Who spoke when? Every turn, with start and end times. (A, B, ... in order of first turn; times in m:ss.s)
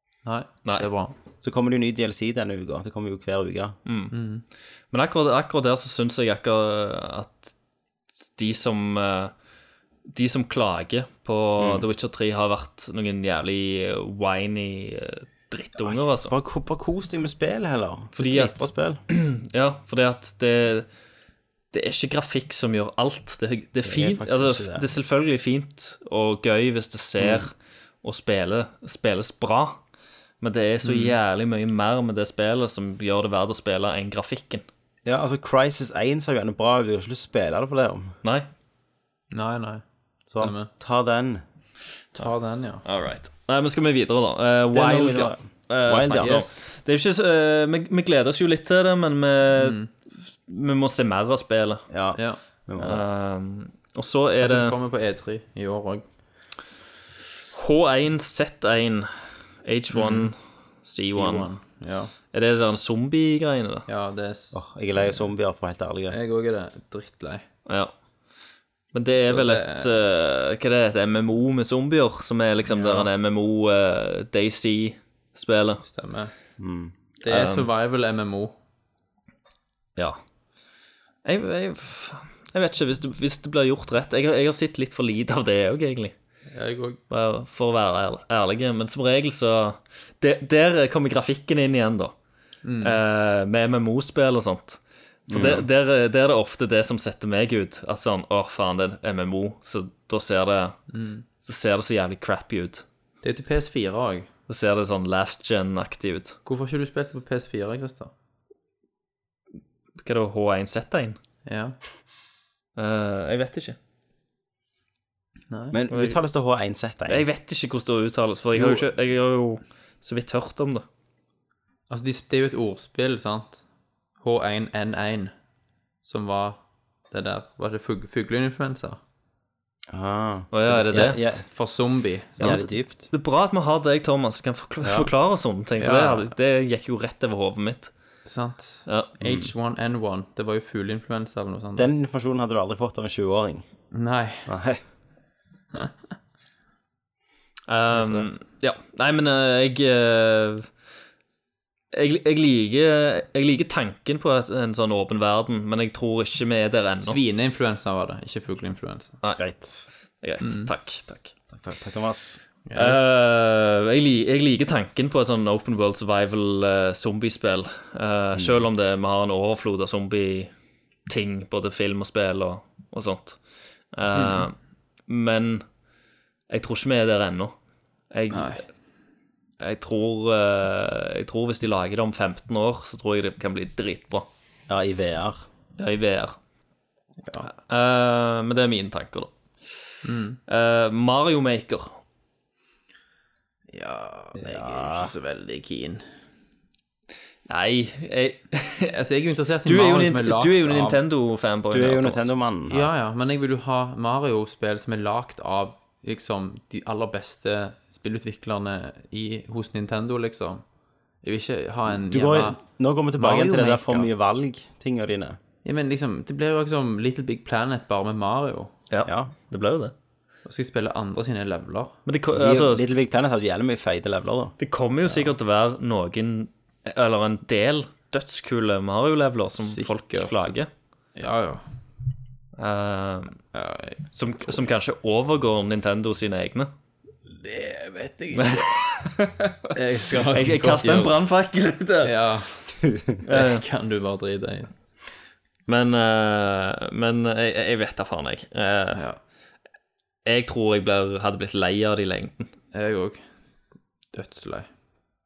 0:00.2-0:01.1 A
0:01.4-0:03.8 B
0:03.8-0:04.1 C
0:04.1-0:04.4 A
0:04.9-0:07.5 C
0:08.4-0:09.3 C
0:10.1-0:16.3 C
0:11.6-0:11.8 B
0:15.8-0:19.0 B
0:18.2-0:20.9 C
0:21.7-0:29.8 C
0:23.8-0:24.8 B
0:27.2-0:27.4 B
0:30.4-0:34.6 C
0:30.8-0:31.1 A
0:35.0-0:38.2 B
0:39.3-0:39.8 A
0:40.3-0:41.4 B
0:40.4-0:40.7 A
0:42.2-0:42.8 A
0:42.8-0:51.8 C
0:44.7-0:46.4 B
0:49.6-0:49.9 A
0:51.9-0:53.0 B
0:52.8-0:54.7 C
0:54.4-0:56.0 A
0:57.5-1:01.5 C
0:59.9-1:00.3 A
1:01.1-1:02.1 A
1:02.3-1:03.9 C
1:03.9-1:04.6 A
1:04.5-1:06.2 B
1:06.1-1:07.4 A
1:07.6-1:07.9 C
1:08.9-1:15.8 C
1:09.2-1:09.9 A
1:12.7-1:13.1 A
1:15.8-1:16.3 A
1:16.6-1:16.9 B
1:17.2-1:18.5 A
1:17.3-1:17.7 C
1:21.2-1:26.1 C
1:26.5-1:27.0 A
1:27.1-1:32.1 C
1:32.6-1:33.0 A
1:32.8-1:40.8 C
1:35.3-1:35.6 B
1:40.9-1:41.2 A
1:41.4-1:42.8 C
1:43.2-1:44.3 A
1:44.5-1:46.4 C
1:46.4-1:48.1 A
1:50.0-1:51.2 C
1:51.4-1:51.8 A
1:52.8-1:53.8 C
1:55.5-1:56.2 A
1:55.7-1:57.2 B
1:57.1-2:00.8 C
1:58.6-1:58.8 A
2:01.9-2:03.6 A
2:04.2-2:05.3 A
2:06.0-2:09.0 A
2:09.9-2:11.4 B
2:10.5-2:11.2 C
2:10.9-2:12.6 A
2:12.4-2:13.1 B
2:12.4-2:17.9 C
2:14.8-2:15.1 B
2:15.8-2:16.3 A
2:18.2-2:21.9 A
2:18.9-2:19.1 C
2:19.2-2:19.5 B
2:21.8-2:23.6 B
2:23.9-2:24.5 A
2:24.4-2:24.8 B
2:27.7-2:30.7 C
2:27.9-2:28.3 A
2:31.9-2:37.2 C
2:37.0-2:39.2 A
2:39.4-2:39.9 B
2:40.2-2:41.3 C
2:40.4-2:40.7 A
2:41.5-2:42.4 B
2:42.7-2:43.0 A
2:42.7-2:50.5 C
2:48.3-2:48.6 B
2:51.1-2:53.4 C
2:53.9-2:54.5 C
2:54.1-2:54.4 A
2:55.1-2:55.6 C
2:56.5-2:57.6 C
2:58.1-2:58.6 C
2:58.3-2:58.6 A
2:59.6-3:04.3 C
3:04.7-3:05.4 B
3:05.8-3:06.4 C
3:07.2-3:07.5 A
3:07.5-3:09.7 C
3:10.0-3:10.4 A
3:10.5-3:12.0 C
3:13.7-3:16.0 A
3:14.4-3:15.1 B
3:17.5-3:18.9 C
3:18.9-3:21.0 A
3:19.6-3:22.3 C
3:21.7-3:22.9 B
3:22.7-3:30.6 A
3:31.2-3:34.1 A
3:32.0-3:35.4 B
3:35.6-3:38.7 A
3:38.9-3:39.9 C
3:40.4-3:42.0 A
3:42.0-3:42.8 C
3:42.3-3:44.6 B
3:44.6-3:50.7 C
3:49.5-3:50.6 A
3:51.2-3:51.6 A
3:52.6-3:53.4 C
3:53.5-3:54.5 A
3:54.1-3:56.7 C
3:57.3-3:59.1 A
3:58.4-3:59.5 C
3:59.7-4:01.2 A
4:00.2-4:02.1 C
4:02.0-4:04.7 A
4:03.2-4:03.6 C
4:05.7-4:09.0 C
4:08.9-4:09.2 A
4:10.2-4:12.5 C
4:12.7-4:13.2 A
4:14.1-4:14.7 A